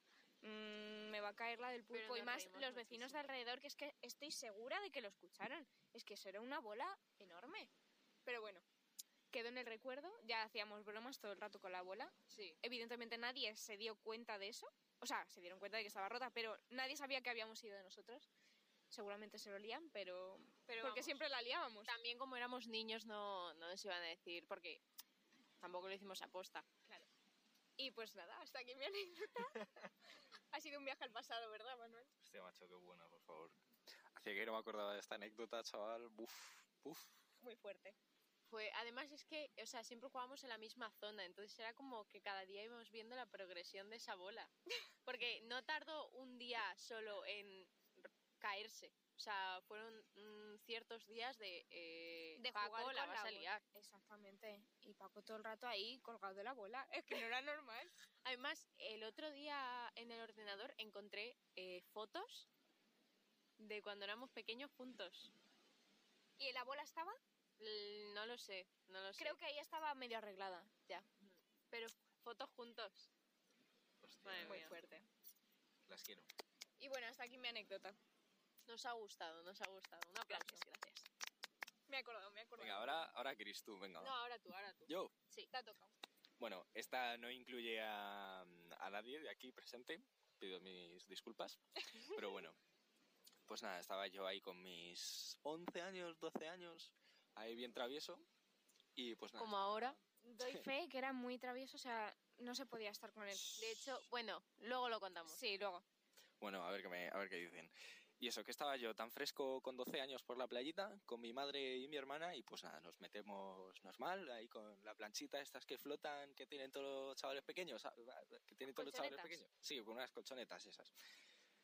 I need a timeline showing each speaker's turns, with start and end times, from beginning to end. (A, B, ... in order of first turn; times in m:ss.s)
0:00.4-0:07.7 A
0:01.9-0:03.3 B
0:08.2-0:08.6 A
0:09.3-0:18.3 A
0:12.3-0:12.6 B
0:18.9-0:21.9 A
0:20.7-0:21.2 B
0:21.9-0:24.8 B
0:25.6-0:26.8 B
0:27.8-0:29.6 A
0:30.5-0:32.1 A
0:32.2-0:33.6 C
0:34.1-0:37.1 C
0:37.4-0:38.0 A
0:38.5-0:44.5 B
0:45.0-0:53.6 B
0:52.4-0:57.9 A
0:58.2-1:02.5 B
1:03.6-1:05.3 B
1:06.4-1:07.2 A
1:07.6-1:09.4 B
1:09.2-1:10.7 A
1:10.9-1:13.1 B
1:14.0-1:14.7 C
1:14.2-1:14.8 B
1:14.4-1:15.0 A
1:15.9-1:16.3 C
1:16.8-1:18.0 A
1:18.6-1:21.0 B
1:20.3-1:20.6 A
1:21.9-1:23.1 A
1:22.6-1:24.2 C
1:24.0-1:25.5 B
1:24.9-1:25.1 C
1:25.5-1:25.9 A
1:26.4-1:32.6 C
1:33.5-1:38.2 C
1:39.0-1:40.6 C
1:39.4-1:40.0 B
1:40.2-1:43.8 A
1:43.6-1:45.4 B
1:45.3-1:45.8 A
1:46.4-2:00.9 C
1:58.7-1:59.3 B